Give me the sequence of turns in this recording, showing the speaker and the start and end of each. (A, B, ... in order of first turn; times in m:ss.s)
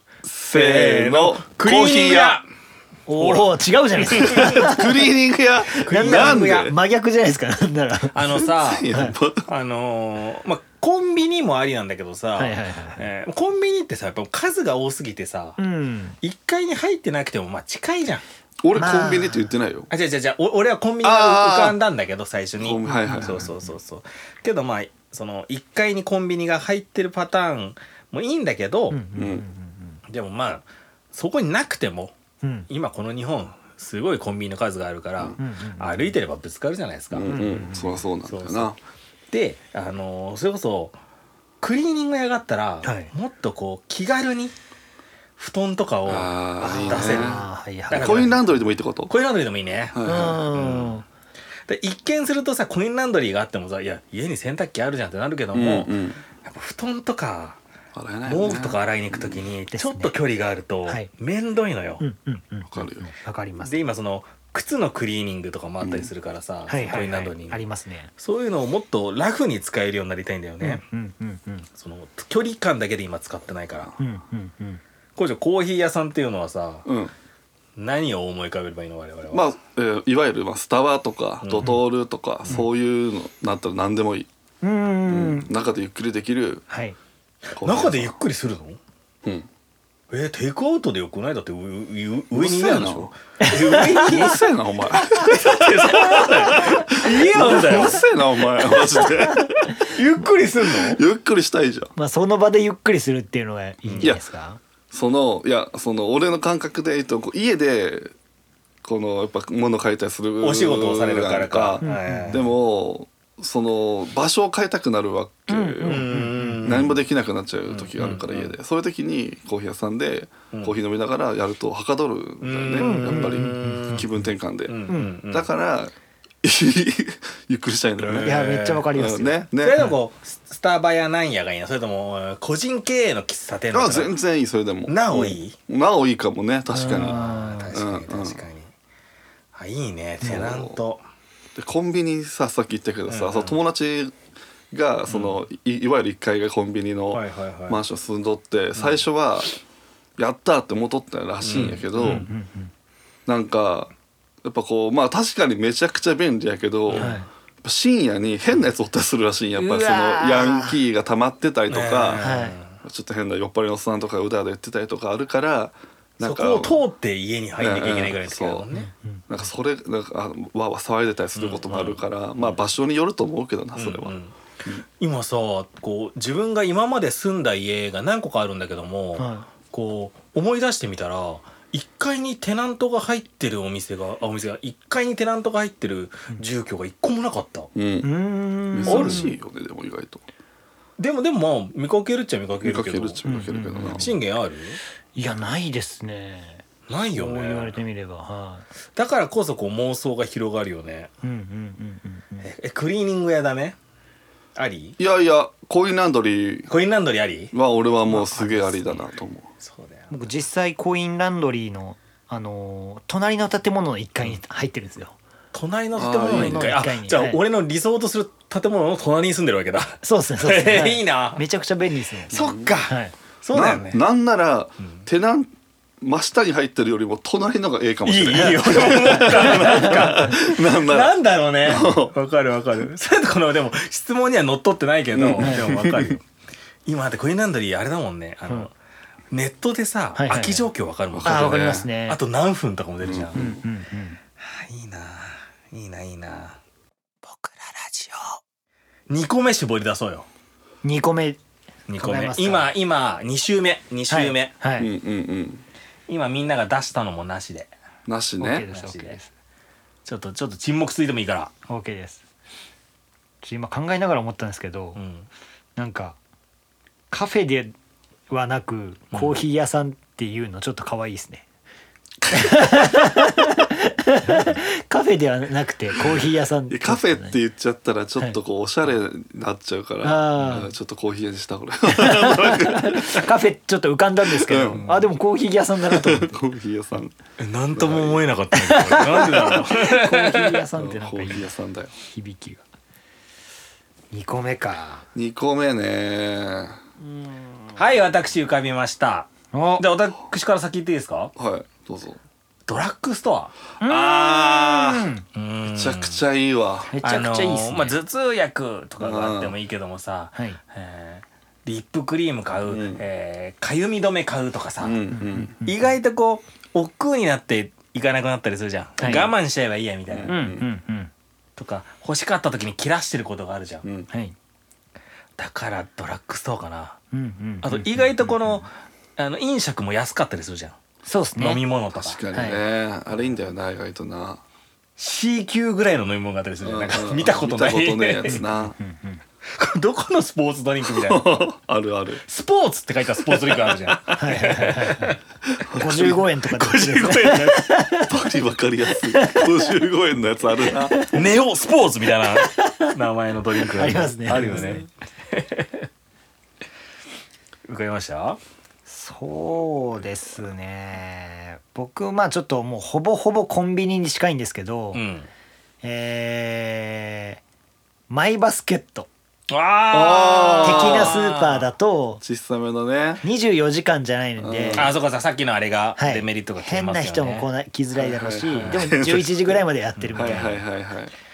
0:00.2-0:02.4 A
0:00.5-0:02.5 B
0:03.1-0:04.9 C
0:03.2-0:03.5 B
0:04.1-0:04.5 B
0:04.1-0:06.7 A
0:05.8-0:08.2 C
0:05.8-0:06.7 B
0:08.1-0:08.9 B
0:08.3-0:09.5 A
0:09.5-0:15.6 B
0:12.4-0:13.1 C
0:15.6-0:16.2 C
0:16.2-0:18.2 B
0:18.6-0:19.9 A
0:18.8-0:19.5 C
0:19.9-0:29.0 B
0:21.0-0:21.8 A
0:22.6-0:23.5 A
0:22.9-0:23.5 C
0:28.9-0:30.0 C
0:29.2-0:29.4 A
0:30.1-0:32.1 B
0:32.4-0:32.7 C
0:32.7-0:37.5 B
0:35.4-0:36.1 C
0:37.1-0:38.8 A
0:37.3-0:38.0 C
0:38.2-0:38.7 B
0:39.3-0:41.0 B
0:41.6-0:44.5 B
0:42.8-0:43.1 C
0:45.4-0:48.4 B
0:46.1-0:49.1 A
0:46.6-0:48.4 C
0:49.1-0:51.0 B
0:49.9-0:50.5 A
0:50.0-0:51.0 C
0:51.7-0:57.6 B
0:55.5-0:56.2 A
0:57.9-0:59.4 A
0:58.3-1:02.0 B
0:59.7-1:00.1 C
1:02.0-1:03.8 C
1:02.7-1:03.1 A
1:03.6-1:07.6 B
1:05.8-1:06.1 A
1:06.7-1:08.1 C
1:08.2-1:10.8 B
1:10.6-1:11.7 C
1:11.8-1:13.9 B
1:14.0-1:14.8 C
1:15.2-1:16.9 B
1:16.9-1:17.1 A
1:17.8-1:19.4 B
1:19.3-1:24.3 A
1:21.4-1:21.8 B
1:24.6-1:25.5 C
1:25.1-1:26.6 A
1:26.7-1:27.0 C
1:27.5-1:28.2 A
1:27.5-1:28.8 B
1:30.1-1:38.0 B
1:32.3-1:33.1 A
1:33.4-1:34.1 C
1:33.9-1:39.7 A
1:36.2-1:36.6 C
1:37.5-1:37.9 C
1:39.8-1:41.0 B
1:40.7-1:41.9 A
1:42.0-1:44.6 C
1:43.9-1:44.2 B
1:44.9-1:48.1 A
1:48.8-1:56.1 A
1:50.4-1:52.5 B
1:51.8-1:52.4 C
1:55.5-1:56.9 C
1:55.8-1:57.0 B
1:56.6-2:09.9 A
1:57.7-1:58.6 B
2:00.5-2:00.8 B
2:02.4-2:04.1 B
2:02.8-2:04.0 C
2:04.7-2:05.5 B
2:04.9-2:05.2 C
2:08.0-2:08.9 B
2:08.1-2:09.9 C
2:09.6-2:14.2 B
2:13.7-2:18.4 A
2:14.9-2:15.6 B
2:16.7-2:17.7 C
2:16.8-2:18.7 B
2:19.5-2:21.0 B
2:20.2-2:20.8 A
2:21.6-2:24.2 A
2:23.1-2:23.6 B
2:24.7-2:29.5 A
2:25.1-2:25.4 B
2:27.1-2:27.8 B
2:28.8-2:29.0 B
2:30.2-2:32.3 A
2:31.4-2:32.2 B
2:32.0-2:32.7 C
2:33.3-2:33.9 A
2:34.4-2:46.8 A
2:36.9-2:37.2 B
2:37.0-2:37.3 C
2:39.6-2:40.8 C
2:41.7-2:42.8 B
2:42.2-2:42.6 C
2:46.2-2:48.9 B
2:47.6-2:48.7 A
2:48.7-2:49.2 C
2:49.3-2:54.8 A
2:51.4-2:52.6 B
2:53.8-2:54.4 B
2:55.0-3:07.7 B
2:59.2-2:59.5 C
3:07.8-3:08.1 A
3:08.0-3:09.3 C
3:08.7-3:10.2 A
3:08.9-3:09.3 B
3:11.0-3:13.2 B
3:12.6-3:14.1 A
3:13.3-3:14.1 C
3:13.8-3:14.8 B
3:15.2-3:18.7 C
3:16.9-3:17.8 B
3:18.9-3:21.1 B
3:21.2-3:22.5 C
3:22.4-3:23.8 B
3:24.6-3:25.0 B
3:25.0-3:26.7 A
3:26.7-3:27.5 B
3:27.5-3:29.5 A
3:28.1-3:29.0 B
3:29.6-3:30.3 B
3:30.1-3:35.2 C
3:35.5-3:41.4 B
3:36.0-3:36.8 A
3:36.2-3:37.4 C
3:40.0-3:42.3 C
3:42.3-3:42.8 A
3:42.3-3:44.0 B
3:42.9-3:43.1 C
3:43.5-3:52.1 A
3:44.8-3:45.0 B
3:48.0-3:56.2 B
3:49.2-3:49.9 C
3:55.1-3:56.2 A
3:56.9-3:58.7 B
3:59.3-4:03.5 B
4:00.2-4:00.7 C
4:01.1-4:01.9 A
4:01.2-4:02.2 C
4:03.0-4:03.6 A
4:03.3-4:04.2 C
4:04.4-4:06.6 B
4:07.2-4:08.4 B
4:09.1-4:10.3 B
4:10.8-4:11.4 C
4:11.9-4:14.5 B
4:12.0-4:12.7 C
4:14.1-4:14.9 C
4:14.8-4:15.6 A
4:16.1-4:17.7 B
4:18.1-4:18.7 A
4:18.4-4:19.3 C
4:18.7-4:19.2 B
4:20.0-4:21.5 B
4:21.7-4:22.2 C
4:23.4-4:25.0 C
4:25.0-4:25.3 B
4:25.8-4:26.2 C
4:27.1-4:27.8 C
4:28.3-4:31.4 C
4:29.1-4:29.4 B
4:32.3-4:37.4 C
4:36.7-4:43.3 A
4:40.0-4:40.7 C
4:41.9-4:46.4 C
4:44.3-4:44.9 A
4:44.7-4:45.0 B
4:45.9-4:47.2 A
4:47.4-4:50.7 B
4:47.7-4:48.3 A
4:48.5-4:51.5 C
4:50.8-4:51.9 A
4:52.0-4:52.6 C
4:54.1-4:55.1 C
4:55.2-4:56.8 A
4:57.0-4:57.8 C
4:57.8-5:01.3 B
4:59.5-4:59.9 C
5:01.4-5:02.2 A
5:02.7-5:03.6 B
5:03.8-5:05.2 C
5:03.8-5:05.1 A
5:05.4-5:06.2 B
5:05.6-5:06.9 A
5:06.9-5:08.0 C
5:07.0-5:15.0 B
5:09.0-5:09.6 A
5:12.7-5:13.0 A
5:14.8-5:15.6 A
5:15.1-5:15.7 C
5:15.6-5:20.4 B
5:19.0-5:19.3 C
5:20.1-5:20.6 A
5:20.3-5:21.1 C
5:21.6-5:23.9 B
5:23.8-5:24.1 A
5:24.1-5:24.4 C
5:25.4-5:27.0 B
5:27.1-5:28.6 C
5:27.6-5:30.8 B
5:31.1-5:31.6 C
5:31.4-5:32.2 B
5:31.9-5:34.4 A
5:32.3-5:32.6 C
5:35.0-5:38.4 B
5:36.6-5:38.8 A
5:38.3-5:39.2 C
5:39.5-5:41.4 B
5:40.9-5:42.2 A
5:42.3-5:45.2 B
5:43.3-5:44.0 A
5:44.2-5:45.2 C
5:45.6-5:46.2 A
5:45.7-5:48.1 C
5:45.8-5:47.8 B
5:48.1-5:51.0 A
5:49.1-5:49.6 C
5:50.8-5:51.2 C
5:51.1-5:55.9 B
5:52.4-5:52.9 C
5:53.6-5:54.8 C
5:57.7-5:58.4 B
5:58.9-6:05.0 C
6:04.9-6:05.3 B
6:05.8-6:07.4 C
6:08.1-6:09.1 C
6:09.5-6:11.7 B
6:09.9-6:11.2 A
6:10.6-6:12.2 C
6:12.2-6:13.2 A
6:13.2-6:14.9 C
6:14.4-6:14.9 A
6:14.7-6:17.5 B
6:16.0-6:20.6 C
6:18.0-6:19.6 A
6:18.5-6:18.9 B
6:20.0-6:20.6 B
6:20.2-6:21.1 A